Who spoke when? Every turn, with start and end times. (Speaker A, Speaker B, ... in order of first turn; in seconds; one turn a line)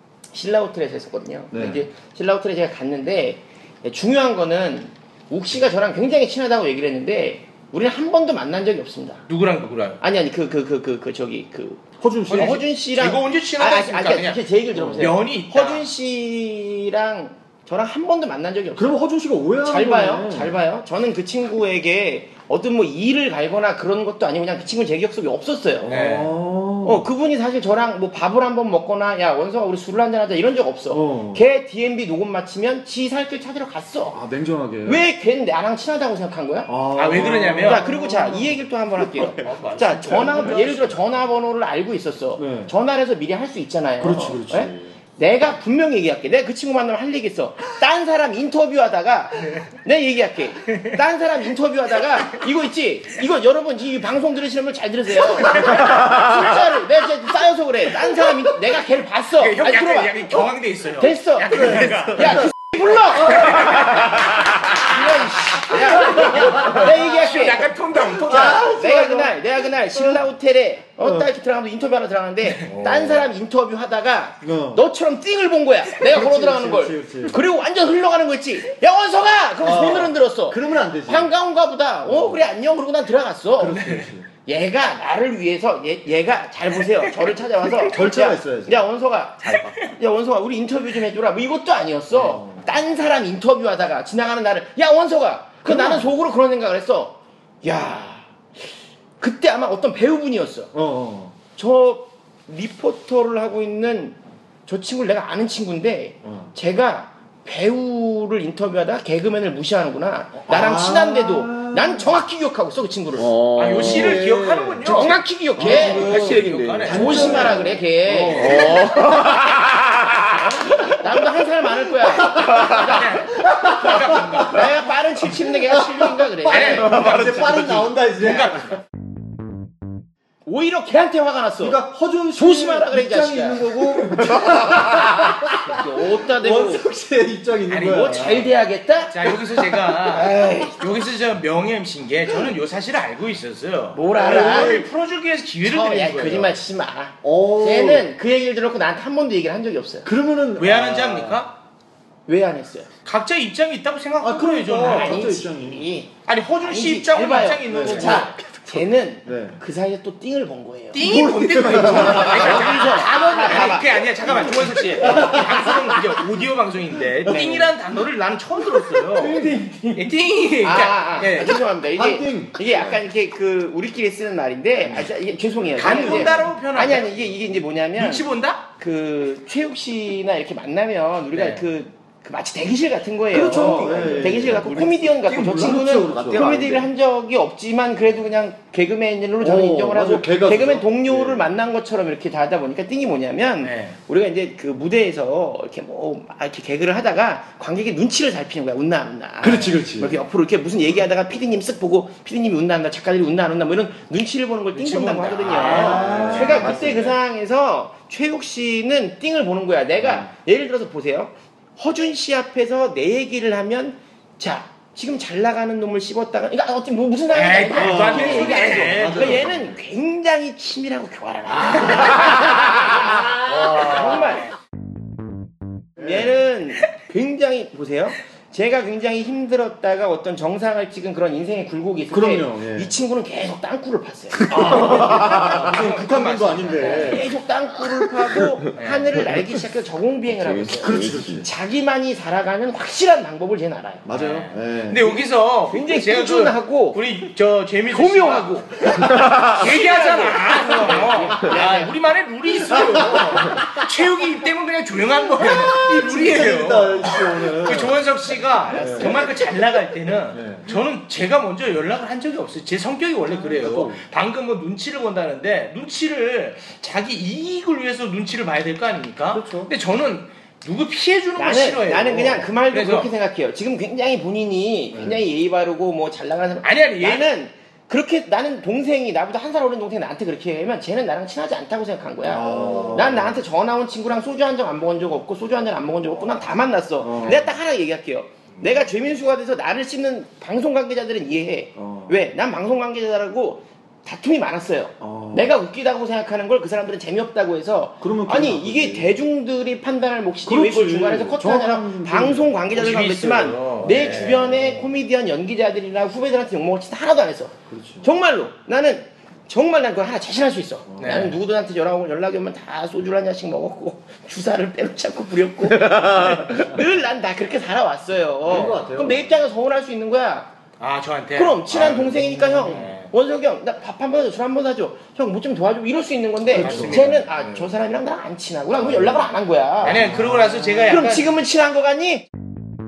Speaker A: 0.3-9.2
Speaker B: 1.5-1.8
Speaker C: 9.3-10.0
Speaker A: 10.0-19.0
Speaker B: 12.0-12.6
Speaker C: 12.3-14.4
Speaker B: 14.7-15.2
Speaker C: 15.0-15.9
Speaker B: 18.8-20.6
Speaker A: 19.6-26.0
Speaker B: 25.8-27.1
Speaker C: 25.9-26.3
Speaker A: 26.8-34.2
Speaker B: 30.9-31.4
Speaker B: 34.1-35.0
Speaker A: 34.8-100.7
Speaker B: 36.7-38.6
Speaker C: 36.9-37.9
Speaker B: 39.1-41.0
Speaker C: 39.4-41.0
Speaker B: 42.4-42.7
Speaker B: 44.0-45.0
Speaker C: 50.7-51.0
Speaker C: 55.5-56.1
Speaker C: 59.4-62.5
Speaker C: 63.1-69.0
Speaker B: 68.3-69.3
Speaker B: 72.6-73.3
Speaker B: 74.4-74.8
Speaker B: 76.0-77.4
Speaker B: 79.6-81.3
Speaker B: 82.0-82.5
Speaker B: 83.6-84.3
Speaker B: 87.9-88.9
Speaker B: 92.1-92.6
Speaker B: 95.6-96.1
Speaker B: 100.7-101.3
Speaker A: 101.5-113.4
Speaker B: 106.2-106.5
Speaker B: 110.5-112.2
Speaker B: 113.2-119.5
Speaker C: 113.5-117.7
Speaker A: 114.8-119.5
Speaker A: 120.3-123.3
Speaker B: 121.9-124.6
Speaker C: 122.4-124.8
Speaker A: 124.3-127.0
Speaker B: 125.3-128.8
Speaker C: 126.5-128.8
Speaker A: 130.4-131.8
Speaker B: 131.6-138.5
Speaker A: 132.3-136.9
Speaker C: 137.7-138.5
Speaker A: 137.8-139.4
Speaker C: 139.1-146.6
Speaker B: 140.1-140.7
Speaker A: 140.1-140.8
Speaker A: 143.9-144.8
Speaker B: 144.2-144.9
Speaker A: 145.6-150.1
Speaker B: 147.2-148.1
Speaker B: 150.0-151.4
Speaker C: 150.6-151.6
Speaker A: 152.3-152.9
Speaker C: 153.0-155.3
Speaker B: 154.2-155.9
Speaker A: 154.8-165.5
Speaker C: 156.2-158.4
Speaker B: 157.7-158.7
Speaker B: 159.2-159.6
Speaker C: 160.9-171.6
Speaker B: 161.0-162.8
Speaker B: 164.4-165.6
Speaker A: 167.2-167.7
Speaker A: 169.2-170.0
Speaker B: 169.2-169.6
Speaker A: 170.6-224.5
Speaker B: 171.9-173.0
Speaker C: 175.8-178.6
Speaker B: 175.9-176.5
Speaker C: 181.3-181.7
Speaker B: 183.3-186.9
Speaker C: 183.5-184.1
Speaker B: 189.4-191.5
Speaker C: 193.6-194.0
Speaker B: 199.4-200.2
Speaker C: 204.7-206.9
Speaker B: 205.5-207.2
Speaker B: 210.0-210.3
Speaker C: 217.3-219.5
Speaker B: 217.7-219.8
Speaker C: 221.8-222.4
Speaker B: 223.6-223.9
Speaker C: 223.6-224.3
Speaker A: 226.0-235.7
Speaker B: 226.0-226.2
Speaker B: 232.1-232.9
Speaker B: 234.4-237.3
Speaker C: 234.5-237.3
Speaker A: 236.8-244.1
Speaker B: 238.3-238.6
Speaker C: 238.8-239.2
Speaker B: 239.3-239.6
Speaker B: 240.3-241.5
Speaker B: 244.0-245.2
Speaker C: 244.1-248.8
Speaker A: 245.7-247.0
Speaker A: 247.9-252.0
Speaker B: 249.0-249.4
Speaker C: 249.4-273.1
Speaker B: 252.7-253.8
Speaker B: 255.5-258.1
Speaker B: 258.7-259.3
Speaker A: 258.8-259.3
Speaker B: 260.3-260.8
Speaker B: 263.3-264.0
Speaker B: 269.3-269.7
Speaker A: 271.4-320.5
Speaker B: 274.9-275.2
Speaker C: 276.6-277.3
Speaker B: 282.2-283.4
Speaker B: 287.0-287.5
Speaker B: 291.8-292.2
Speaker B: 295.0-295.5
Speaker B: 298.0-299.2
Speaker B: 300.4-302.6
Speaker C: 302.7-304.4
Speaker B: 303.8-304.9
Speaker B: 307.7-308.1
Speaker B: 310.9-311.3
Speaker C: 311.0-311.4
Speaker B: 318.4-319.3
Speaker C: 320.8-323.1
Speaker A: 321.3-330.1
Speaker B: 321.7-322.9
Speaker C: 326.5-327.2
Speaker B: 326.5-327.8
Speaker B: 328.8-330.9
Speaker C: 329.8-331.3
Speaker A: 330.9-332.2